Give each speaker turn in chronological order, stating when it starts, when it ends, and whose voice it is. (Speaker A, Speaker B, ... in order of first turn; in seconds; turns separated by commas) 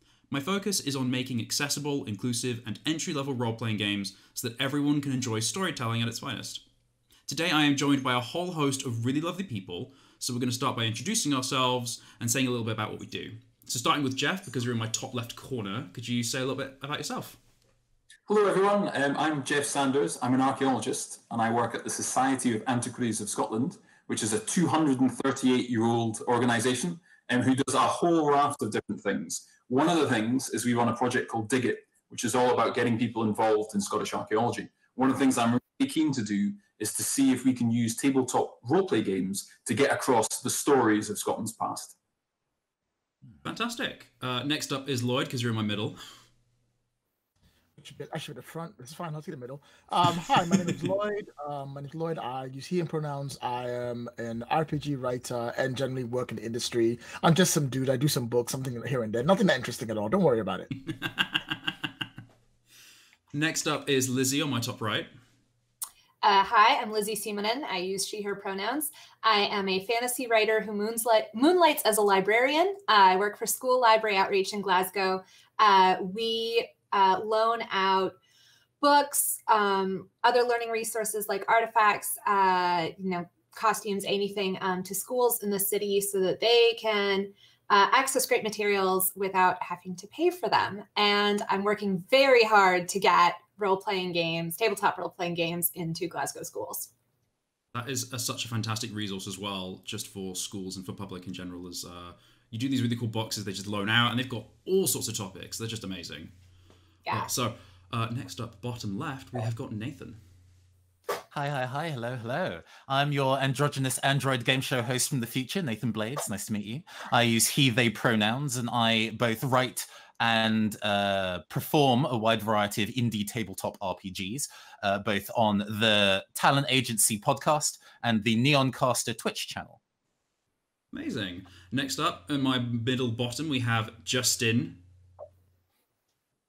Speaker A: 0.3-6.6, Speaker A: 7.3-17.4, Speaker B: 18.3-41.9, Speaker A: 43.4-46.0, Speaker C: 47.8-60.7, Speaker A: 61.0-61.5, Speaker A: 63.3-65.1, Speaker D: 66.2-78.2, Speaker D: 78.8-96.9, Speaker A: 97.7-106.3, Speaker A: 107.1-110.2, Speaker E: 111.3-129.8, Speaker A: 130.9-134.8